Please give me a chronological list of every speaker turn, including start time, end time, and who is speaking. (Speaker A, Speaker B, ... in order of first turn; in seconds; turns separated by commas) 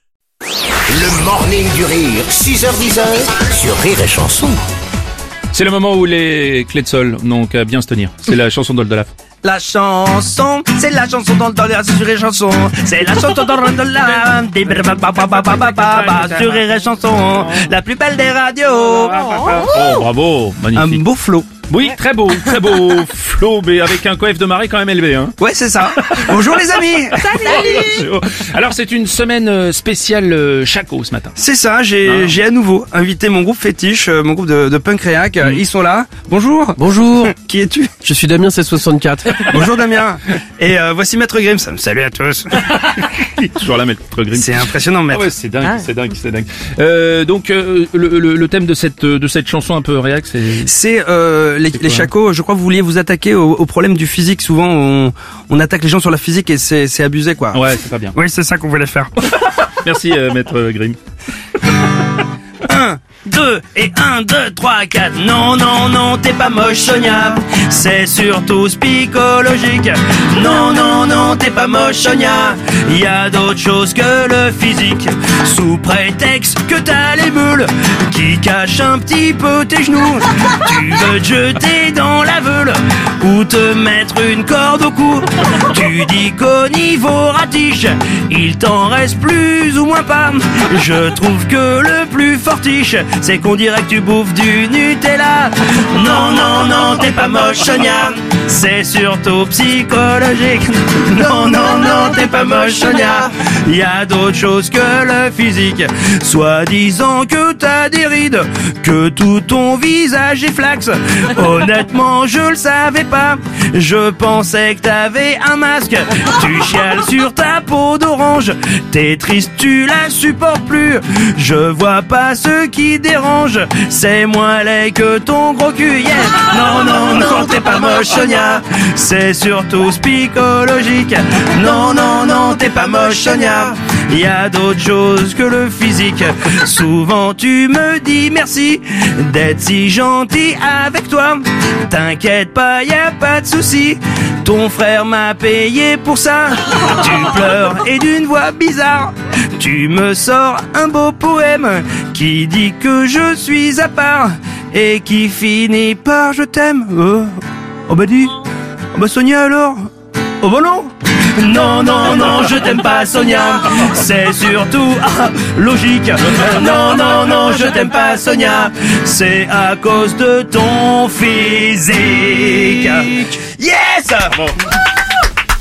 Speaker A: 0.9-4.6, Speaker B: 5.5-9.1, Speaker C: 9.4-19.5, Speaker B: 15.4-16.6, Speaker B: 18.8-21.0, Speaker C: 20.7-21.5, Speaker B: 21.7-25.4, Speaker C: 25.4-27.5, Speaker B: 26.0-26.5, Speaker B: 27.2-31.4, Speaker C: 31.4-38.1, Speaker B: 32.1-32.4, Speaker D: 36.8-37.3, Speaker D: 38.0-39.5, Speaker C: 39.4-42.7, Speaker B: 42.6-50.7, Speaker C: 44.3-45.3, Speaker C: 50.6-57.6, Speaker B: 51.8-52.1, Speaker B: 57.5-58.1, Speaker C: 58.1-59.1, Speaker B: 59.4-61.0, Speaker C: 62.6-157.4, Speaker C: 157.9-158.4, Speaker C: 158.9-159.9, Speaker C: 160.4-174.5